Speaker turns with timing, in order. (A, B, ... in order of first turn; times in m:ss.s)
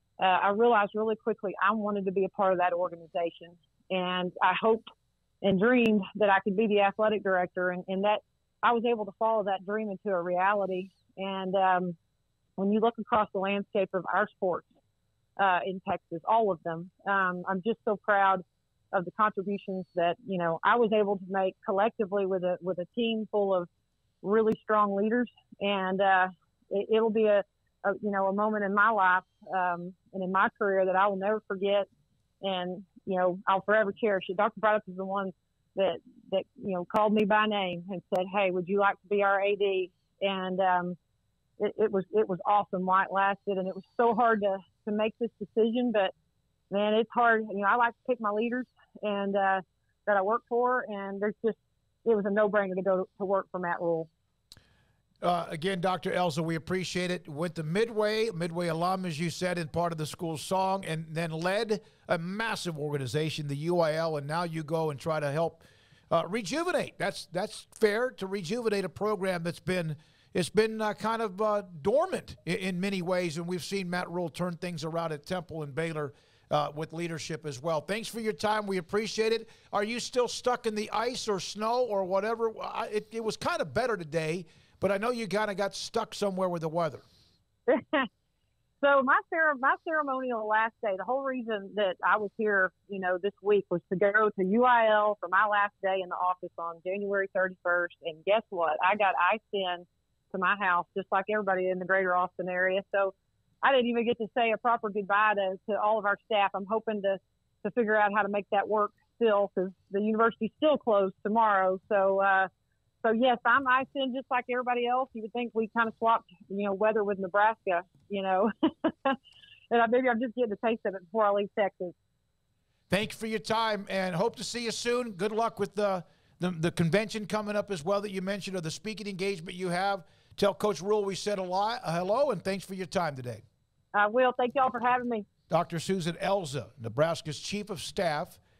0:00.2-0:04.8 A
0:05.4-0:12.0 A
0:12.6-0:14.7 A
0:15.4-0:23.7 A
0:24.2-0:31.9 A
0:32.4-0:41.0 A
0:41.6-0:46.1 A
0:46.7-0:54.1 A
0:55.2-1:27.0 B
1:27.7-1:28.1 A
1:28.8-1:52.5 A
1:53.0-1:59.2 A
1:59.7-2:01.9 A
2:02.9-2:13.4 B
2:13.9-2:15.2 A
2:15.5-2:18.4 B